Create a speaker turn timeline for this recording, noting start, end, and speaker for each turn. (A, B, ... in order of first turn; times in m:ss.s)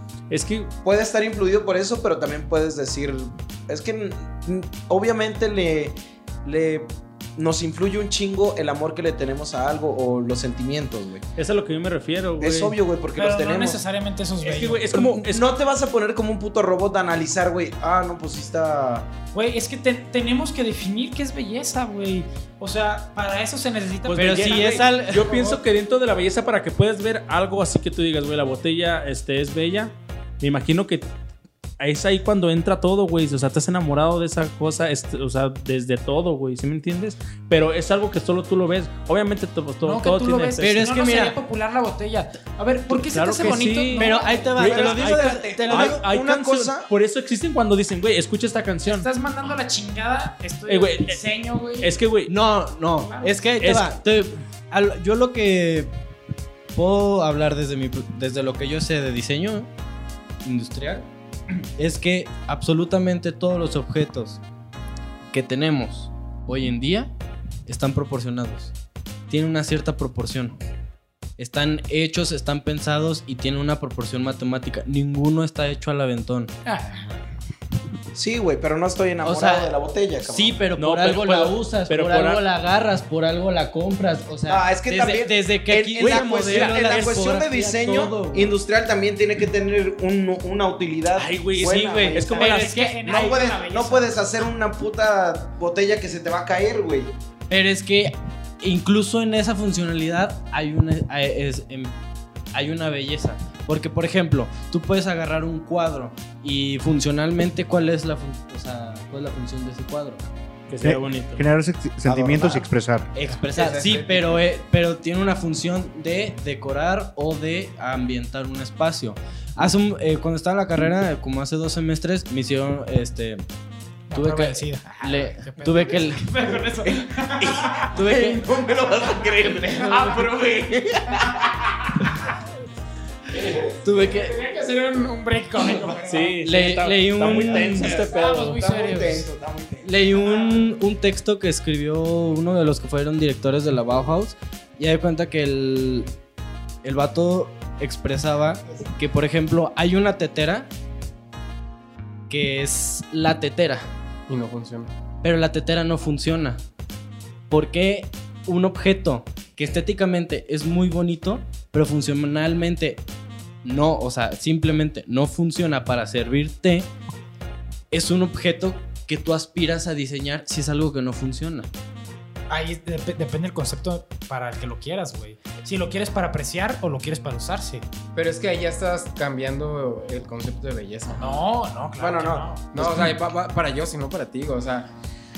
0:00.3-0:00.7 A
0:00.8-0:11.2 B
0:11.4-0:12.8 A
0:12.4-0:13.8 B
0:13.2-0:15.0 C
0:14.4-0:15.4 A
0:14.9-0:19.1 B
0:19.3-0:25.6 C
0:24.0-0:31.1 A
0:24.2-0:25.3 D
0:31.8-0:40.7 A
0:39.8-0:45.0 C
0:40.6-0:41.4 D
0:42.9-0:49.1 A
0:43.9-0:46.0 D
0:44.6-0:46.9 B
0:48.8-0:51.9 C
0:50.7-0:51.2 A
0:51.8-0:52.3 A
0:52.3-0:55.9 D
0:53.0-0:53.5 C
0:53.6-0:53.9 A
0:56.7-0:59.7 D
1:00.4-1:01.0 D
1:01.8-1:04.4 D
1:05.3-1:07.1 D
1:07.7-1:08.7 D
1:09.3-1:10.6 D
1:11.4-1:16.5 D
1:16.6-1:17.1 C
1:18.1-1:20.6 B
1:19.2-1:19.7 D
1:20.2-1:28.5 D
1:20.8-1:22.4 A
1:24.5-1:32.5 B
1:26.0-1:27.3 A
1:31.1-1:32.9 A
1:31.6-1:33.3 D
1:32.3-1:34.1 C
1:33.0-1:37.1 B
1:37.5-1:42.0 D
1:42.5-1:50.2 D
1:50.7-1:51.4 A
1:50.8-1:53.1 E
1:52.1-1:52.6 D
1:53.1-2:03.4 D
1:53.5-1:54.4 F
2:04.1-2:08.0 C
2:04.1-2:06.4 D
2:07.2-2:11.8 B
2:07.9-2:08.5 D
2:09.8-2:10.4 C
2:11.2-2:12.2 C
2:13.3-2:16.4 C
2:13.7-2:14.4 D
2:16.0-2:18.6 A
2:16.4-2:18.1 D
2:17.2-2:20.5 B
2:17.8-2:19.3 C
2:19.8-2:26.1 D
2:26.8-2:30.7 D
2:32.3-2:33.8 D
2:34.3-2:34.9 F
2:35.2-2:36.6 D
2:37.5-2:43.0 D
2:43.6-2:46.9 D
2:47.9-2:51.7 D
2:52.5-2:57.8 C
2:58.1-3:01.5 F
3:01.1-3:02.7 C
3:02.0-3:03.2 B
3:02.7-3:04.9 F